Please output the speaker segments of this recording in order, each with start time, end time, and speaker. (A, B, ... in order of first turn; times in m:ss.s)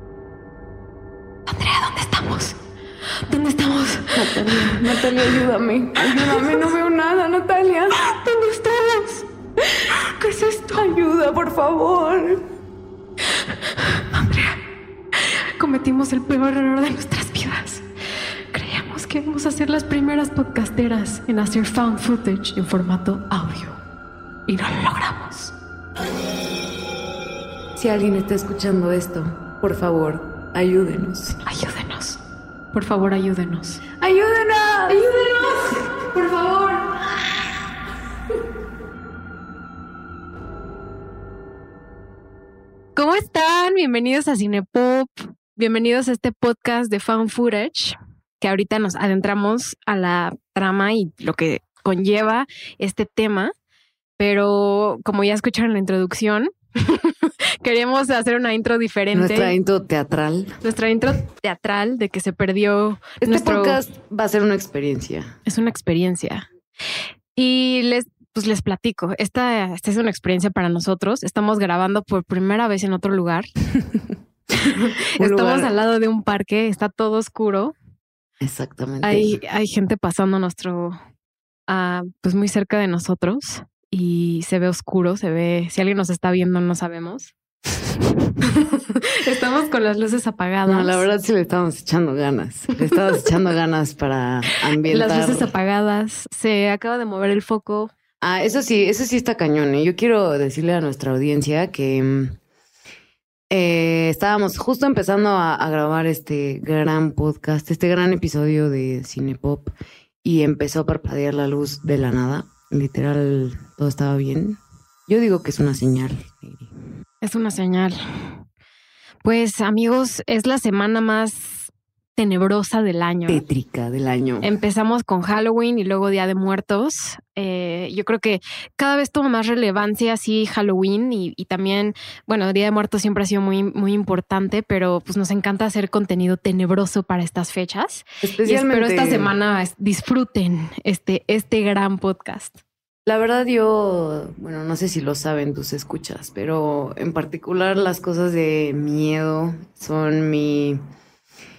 0:01.5-0:02.6 A
0:03.3-0:05.0 A
0:04.2-0:08.2 B
0:08.1-0:09.2 A
0:09.9-0:10.8 A
0:10.4-0:12.4 B
0:13.8-0:14.6 A
0:15.1-0:17.8 A
0:18.5-0:23.8 A
0:24.5-0:25.5 A
0:27.8-0:31.4 B
0:31.4-0:32.2 A
0:32.7-0:33.9 A
0:34.0-0:35.7 B
0:35.5-0:37.0 A
0:43.0-0:53.5 A
0:54.2-0:59.6 A
0:59.1-1:00.5 B
1:00.6-1:03.8 A
1:03.2-1:05.3 B
1:05.5-1:06.5 A
1:07.4-1:13.5 A
1:14.6-1:17.8 A
1:15.2-1:15.7 B
1:18.4-1:19.4 B
1:19.0-1:21.0 A
1:21.7-1:27.3 A
1:28.4-1:31.0 A
1:30.7-1:35.5 B
1:32.9-1:33.3 A
1:34.8-1:37.9 A
1:38.2-1:42.4 B
1:43.5-1:56.7 B
1:57.2-1:58.3 A
1:59.2-2:03.4 A
2:03.3-2:04.5 B
2:04.4-2:22.6 A
2:18.2-2:19.3 B
2:23.1-2:30.8 B